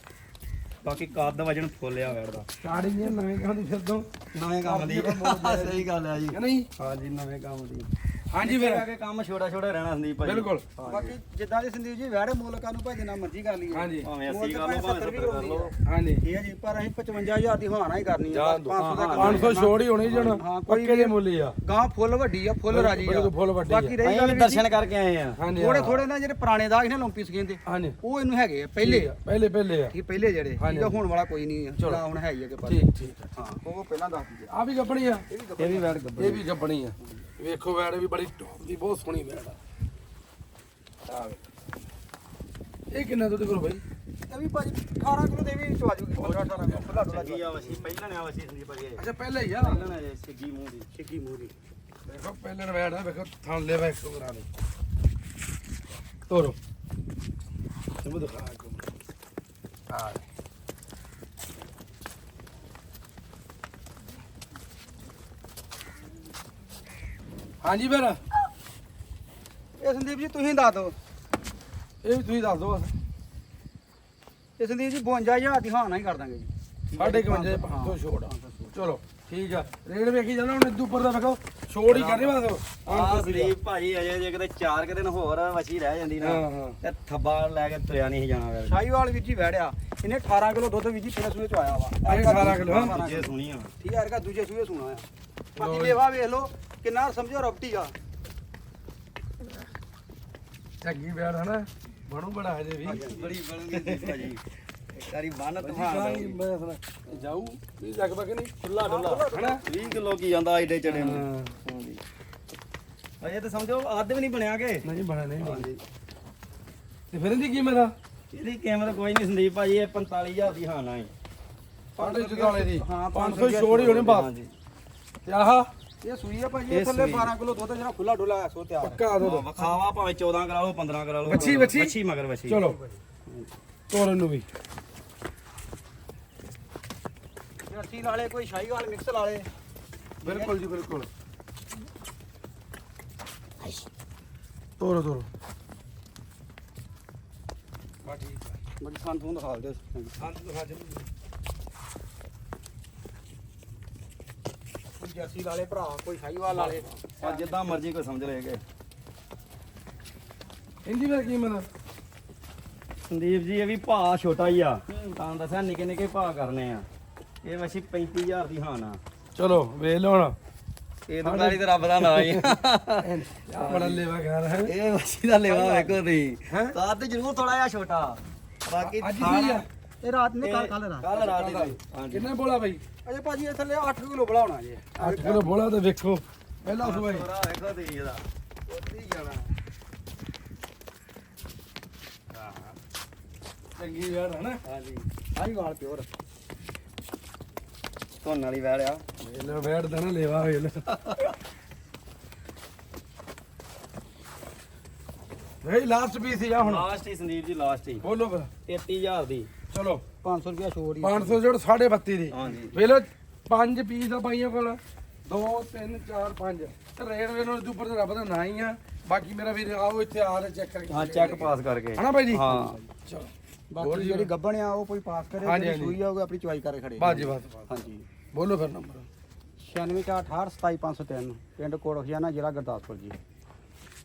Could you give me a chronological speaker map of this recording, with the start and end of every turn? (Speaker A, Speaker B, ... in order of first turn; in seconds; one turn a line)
Speaker A: 0.8-2.5
Speaker B: 2.6-4.1
Speaker A: 4.3-11.2
Speaker B: 4.6-6.7
Speaker B: 8.3-8.9
Speaker B: 10.2-10.7
Speaker C: 10.8-24.7
Speaker B: 13.7-14.1
Speaker A: 14.0-15.7
Speaker B: 15.8-16.2
Speaker B: 18.3-21.6
Speaker A: 18.8-20.3
Speaker B: 22.7-23.9
Speaker A: 24.0-25.4
Speaker B: 25.4-26.0
Speaker C: 25.6-29.1
Speaker B: 27.7-28.0
Speaker B: 28.8-29.9
Speaker C: 29.9-34.5
Speaker B: 30.6-31.0
Speaker B: 32.7-33.2
Speaker B: 34.5-35.2
Speaker C: 35.3-36.0
Speaker A: 35.6-36.5
Speaker B: 36.2-39.6
Speaker B: 41.1-41.4
Speaker B: 42.9-43.8
Speaker C: 44.3-47.7
Speaker B: 46.2-46.8
Speaker A: 46.8-49.0
Speaker B: 49.0-49.9
Speaker A: 49.6-50.9
Speaker C: 50.9-51.5
Speaker B: 52.1-54.5
Speaker B: 56.3-56.6
Speaker B: 58.0-58.9
Speaker B: 59.9-60.2
Speaker B: 67.6-68.2
Speaker C: 69.8-71.0
Speaker B: 72.0-72.9
Speaker C: 74.6-78.8
Speaker B: 77.0-83.5
Speaker A: 81.9-82.3
Speaker A: 82.9-88.8
Speaker B: 86.2-86.8
Speaker C: 88.7-97.9
Speaker B: 92.0-92.9
Speaker A: 92.4-93.7
Speaker B: 95.6-96.0
Speaker B: 100.8-103.2
Speaker C: 102.8-103.3
Speaker A: 102.9-104.4
Speaker B: 103.7-104.3
Speaker A: 104.9-106.4
Speaker B: 105.6-108.5
Speaker A: 108.6-112.0
Speaker C: 108.8-110.0
Speaker B: 109.3-109.6
Speaker B: 110.9-111.6
Speaker A: 113.2-114.9
Speaker B: 114.8-115.7
Speaker A: 115.4-115.8
Speaker B: 117.1-117.9
Speaker A: 118.3-121.1
Speaker C: 122.0-124.1
Speaker B: 122.0-124.3
Speaker A: 123.8-124.5
Speaker B: 125.3-125.7
Speaker C: 126.0-129.1
Speaker A: 126.7-127.3
Speaker B: 128.8-129.5
Speaker A: 129.2-132.6
Speaker B: 131.2-131.9
Speaker B: 132.5-132.8
Speaker C: 132.8-133.5
Speaker B: 133.9-134.5
Speaker C: 137.7-139.5
Speaker C: 140.2-140.6
Speaker B: 140.2-141.1
Speaker B: 144.8-145.3
Speaker B: 148.1-148.6
Speaker C: 148.8-150.2
Speaker B: 150.2-151.1
Speaker C: 155.0-157.8
Speaker A: 157.2-158.6
Speaker B: 160.8-161.7
Speaker A: 163.1-166.9
Speaker A: 167.4-169.0
Speaker B: 169.4-170.4
Speaker A: 171.1-174.0
Speaker B: 171.2-174.7
Speaker A: 174.6-179.7
Speaker C: 175.4-176.0
Speaker B: 176.5-176.8
Speaker B: 178.8-179.7
Speaker C: 180.0-181.2
Speaker A: 180.4-182.3
Speaker B: 181.2-182.8
Speaker C: 183.1-185.5
Speaker B: 185.0-187.3
Speaker A: 186.7-189.5
Speaker B: 193.8-194.6
Speaker A: 194.7-195.1
Speaker C: 195.2-196.1
Speaker A: 198.2-199.0
Speaker B: 199.2-200.8
Speaker B: 205.6-206.9
Speaker A: 206.6-208.1
Speaker B: 208.0-208.5
Speaker A: 208.7-209.5
Speaker B: 209.7-210.0
Speaker C: 210.2-211.4
Speaker B: 211.0-224.3
Speaker A: 212.3-212.8
Speaker A: 220.9-222.8
Speaker C: 223.7-228.1
Speaker B: 225.4-226.0
Speaker B: 227.0-227.7
Speaker B: 228.3-229.1
Speaker C: 229.6-233.2